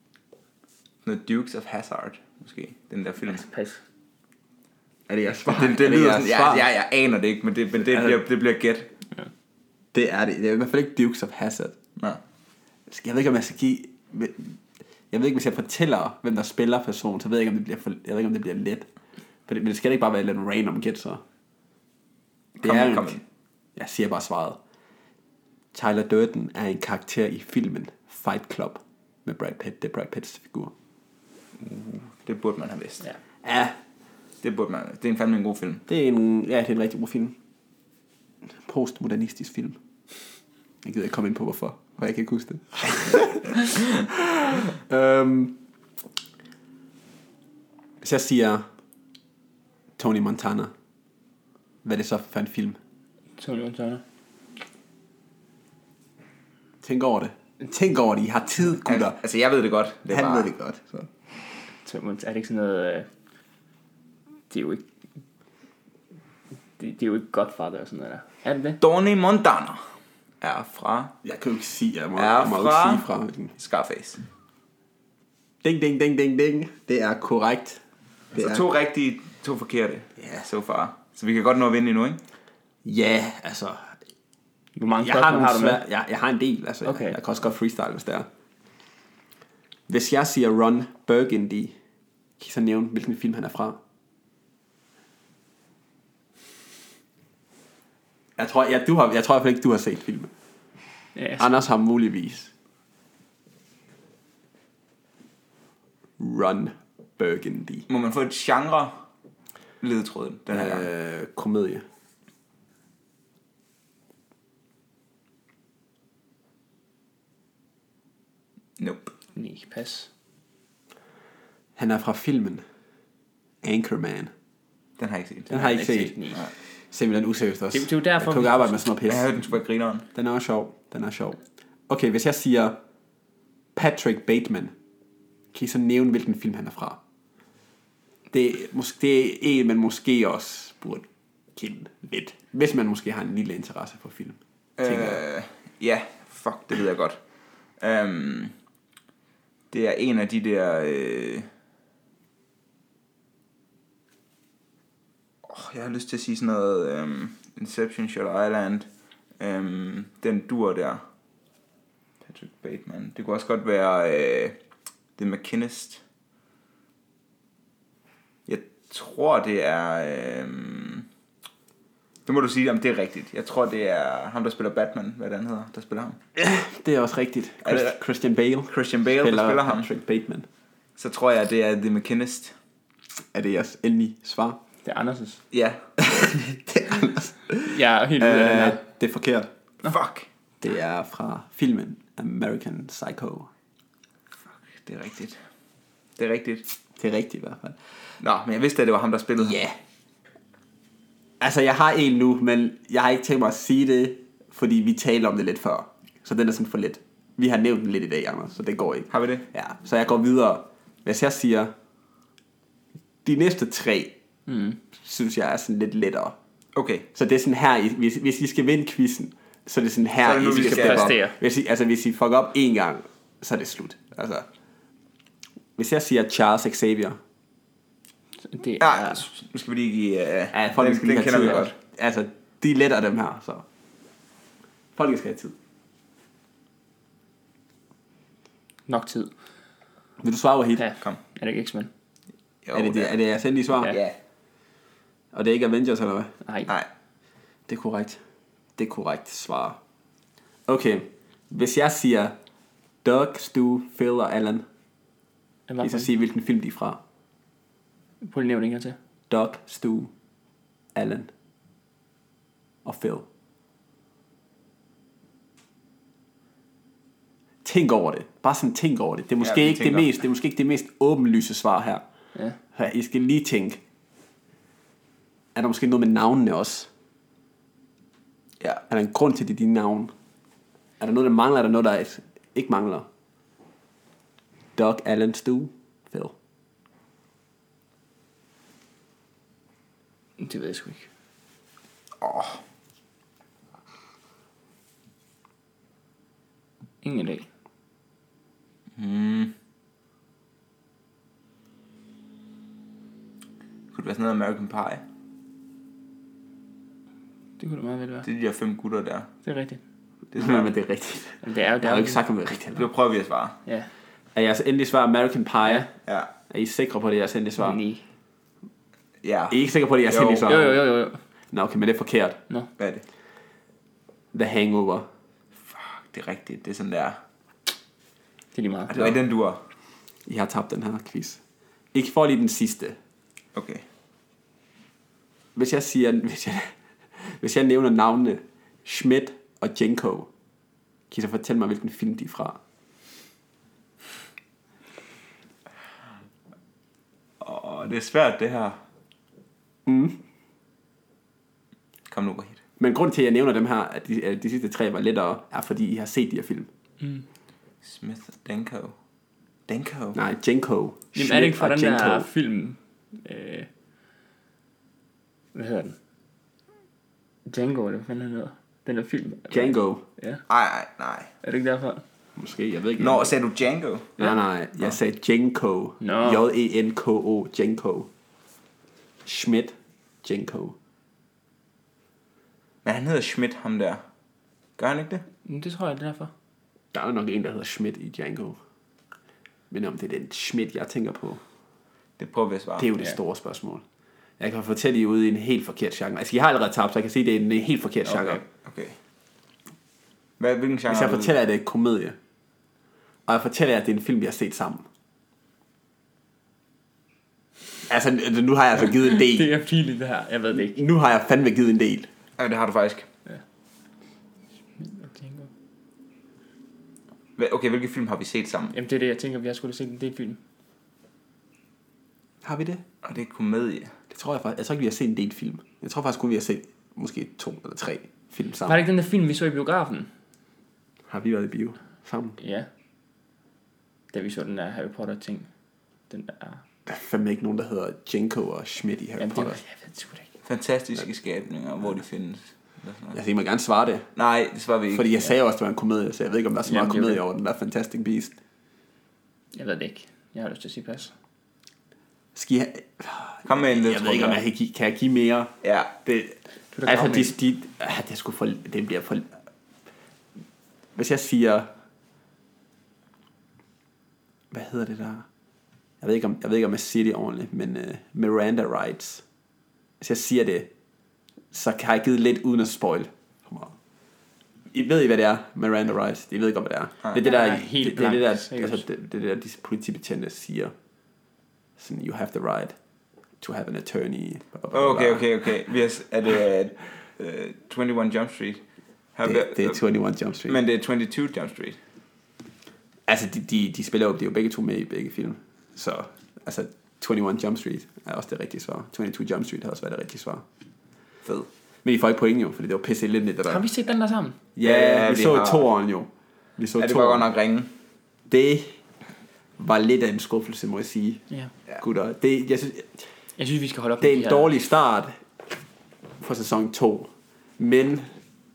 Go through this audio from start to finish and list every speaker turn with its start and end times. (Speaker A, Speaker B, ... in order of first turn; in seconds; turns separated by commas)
Speaker A: 1.1-3.4, Speaker B: 3.2-3.8, Speaker C: 5.1-6.7, Speaker A: 5.4-8.9, Speaker C: 7.8-8.2, Speaker C: 9.9-11.8, Speaker C: 12.9-18.9, Speaker C: 19.5-21.2, Speaker C: 22.6-23.2, Speaker A: 22.6-23.2, Speaker C: 23.8-24.6, Speaker C: 25.7-30.7, Speaker A: 31.6-33.0, Speaker C: 33.4-33.8, Speaker A: 34.4-35.9, Speaker C: 35.9-37.4, Speaker C: 38.5-39.8, Speaker C: 40.8-45.6, Speaker C: 48.0-48.6, Speaker C: 50.0-50.7, Speaker C: 51.8-52.8, Speaker B: 53.4-54.0, Speaker C: 56.8-59.2, Speaker A: 58.8-60.5, Speaker C: 60.1-61.1, Speaker B: 61.9-63.1, Speaker B: 64.5-64.8, Speaker B: 66.8-68.8, Speaker A: 68.8-69.8, Speaker A: 70.4-71.1, Speaker C: 71.2-73.5, Speaker A: 72.2-73.1, Speaker A: 73.6-74.2, Speaker C: 75.6-77.8, Speaker C: 78.3-78.6, Speaker A: 78.4-82.2, Speaker C: 80.2-80.5, Speaker C: 82.8-84.0, Speaker B: 84.8-85.8, Speaker C: 85.0-88.3, Speaker B: 86.8-87.2, Speaker C: 89.9-91.8, Speaker C: 92.4-93.8, Speaker C: 98.4-100.3, Speaker B: 101.2-101.5, Speaker C: 101.4-102.5, Speaker C: 106.2-107.9, Speaker A: 107.9-109.0, Speaker A: 109.8-110.9, Speaker C: 110.5-111.8, Speaker A: 118.8-119.1, Speaker B: 119.3-120.1, Speaker C: 121.8-122.6, Speaker C: 123.6-124.3, Speaker A: 125.0-125.5, Speaker C: 125.5-126.3, Speaker B: 125.5-126.4, Speaker C: 126.9-129.5, Speaker B: 127.7-128.9, Speaker A: 129.1-130.1, Speaker C: 130.1-132.8, Speaker C: 133.8-134.7, Speaker C: 135.5-137.0, Speaker C: 138.3-145.2, Speaker A: 144.8-147.2, Speaker A: 147.8-148.5, Speaker A: 149.7-151.5, Speaker A: 155.4-158.9, Speaker A: 159.4-161.0, Speaker A: 162.3-164.6, Speaker A: 165.2-166.0, Speaker A: 168.5-171.1, Speaker A: 172.3-176.2, Speaker C: 176.4-180.5, Speaker A: 177.7-178.0, Speaker A: 178.7-179.9, Speaker A: 181.0-182.6, Speaker C: 183.3-184.6, Speaker B: 184.8-185.4, Speaker A: 185.5-186.0, Speaker C: 186.0-189.5, Speaker B: 187.7-188.8, Speaker A: 189.8-190.3, Speaker C: 190.6-193.5, Speaker A: 194.7-195.4, Speaker A: 196.2-196.7, Speaker C: 197.0-197.8, Speaker A: 198.2-199.6, Speaker C: 199.4-199.8, Speaker C: 201.4-211.7, Speaker A: 209.1-209.4, Speaker C: 213.2-214.2, Speaker B: 214.5-214.8, Speaker C: 214.9-216.4, Speaker A: 216.8-217.1, Speaker C: 217.1-224.5, Speaker A: 220.2-221.2, Speaker B: 220.5-221.4, Speaker C: 225.8-227.2, Speaker B: 228.4-229.3, Speaker A: 228.8-231.7, Speaker C: 230.5-233.7, Speaker C: 234.9-235.6, Speaker B: 238.9-239.3, Speaker C: 240.2-240.8, Speaker B: 240.8-241.9, Speaker A: 242.7-243.2, Speaker C: 242.7-244.0, Speaker A: 243.8-244.2, Speaker C: 245.3-246.3, Speaker B: 246.4-246.7, Speaker C: 247.7-248.2, Speaker C: 248.8-249.8, Speaker C: 250.7-252.3, Speaker C: 253.0-254.7, Speaker B: 255.7-256.1, Speaker C: 255.8-257.0, Speaker B: 258.2-259.0, Speaker C: 259.3-260.1, Speaker C: 260.9-261.3, Speaker C: 262.9-263.3, Speaker C: 267.6-272.0, Speaker A: 269.4-270.1, Speaker C: 272.7-273.8, Speaker C: 275.6-276.9, Speaker C: 278.9-280.1, Speaker C: 281.0-283.1, Speaker C: 284.8-286.4, Speaker B: 290.4-291.1, Speaker A: 292.2-292.6, Speaker B: 297.0-297.5, Speaker A: 299.0-299.5, Speaker A: 303.9-305.0, Speaker B: 307.6-308.3, Speaker A: 308.2-309.3, Speaker B: 309.4-309.8, Speaker A: 310.3-310.7, Speaker C: 310.4-312.9, Speaker B: 311.4-312.2, Speaker A: 312.8-313.6, Speaker C: 314.4-315.9, Speaker C: 316.5-317.8, Speaker B: 317.6-318.0, Speaker A: 319.2-320.7, Speaker C: 319.5-320.8, Speaker B: 320.4-321.2, Speaker C: 321.5-322.4, Speaker A: 322.8-323.0, Speaker C: 324.3-325.1, Speaker A: 325.7-327.2, Speaker B: 328.5-328.9, Speaker A: 328.9-329.6, Speaker C: 330.3-331.4, Speaker C: 331.9-333.0, Speaker A: 333.6-333.8, Speaker C: 335.6-340.3, Speaker C: 341.1-342.6, Speaker A: 347.4-348.8, Speaker C: 349.9-350.2, Speaker A: 352.1-352.6, Speaker C: 352.8-356.7, Speaker A: 357.8-358.9, Speaker A: 359.7-360.2, Speaker C: 360.1-362.3, Speaker B: 361.1-363.7, Speaker B: 365.5-366.0, Speaker B: 367.5-370.4, Speaker C: 369.5-370.0, Speaker A: 370.5-371.3, Speaker B: 371.4-372.0, Speaker C: 372.4-373.4, Speaker A: 373.0-374.2, Speaker C: 374.2-378.1, Speaker B: 376.0-376.4, Speaker C: 379.2-380.8, Speaker A: 382.9-384.0, Speaker A: 384.8-385.2, Speaker B: 385.4-386.3, Speaker C: 386.9-388.6, Speaker C: 389.7-391.4, Speaker A: 392.2-392.9, Speaker C: 392.8-393.8, Speaker C: 394.4-398.4, Speaker B: 398.1-398.4, Speaker A: 398.5-399.0, Speaker A: 400.4-401.3, Speaker C: 400.9-402.2, Speaker C: 403.3-404.9, Speaker C: 407.9-409.5, Speaker B: 409.1-410.8, Speaker C: 410.6-412.1, Speaker A: 412.4-413.1, Speaker B: 414.8-415.5, Speaker A: 417.4-418.7, Speaker B: 418.7-420.4, Speaker C: 422.4-422.8, Speaker A: 423.0-423.9, Speaker C: 424.1-428.8, Speaker B: 428.7-430.1, Speaker C: 431.1-432.4, Speaker B: 432.4-432.7, Speaker B: 434.1-435.5, Speaker B: 436.1-436.6, Speaker C: 436.9-439.6, Speaker B: 439.2-440.3, Speaker A: 440.4-443.2, Speaker C: 443.1-444.1, Speaker A: 444.2-445.3, Speaker C: 444.9-448.4, Speaker B: 446.6-447.2, Speaker B: 449.5-451.1, Speaker C: 452.4-455.5, Speaker A: 453.4-454.4, Speaker A: 455.6-455.9, Speaker C: 456.1-459.3, Speaker B: 456.7-457.3, Speaker C: 460.9-461.7, Speaker C: 464.5-465.3, Speaker C: 466.0-469.2, Speaker C: 470.0-470.7, Speaker C: 471.5-473.8, Speaker C: 474.7-480.7, Speaker B: 477.2-478.8, Speaker C: 481.8-482.8, Speaker C: 483.4-485.3, Speaker A: 484.7-488.6, Speaker A: 489.2-489.8, Speaker C: 489.2-490.6, Speaker A: 490.5-491.8, Speaker C: 493.1-500.4, Speaker C: 501.8-503.7, Speaker B: 503.4-504.4, Speaker C: 504.6-507.3, Speaker A: 504.6-505.7, Speaker A: 506.8-507.7, Speaker C: 508.3-508.8, Speaker C: 509.6-511.2, Speaker C: 511.8-513.0, Speaker B: 513.4-514.5, Speaker C: 514.0-515.2, Speaker C: 516.2-518.1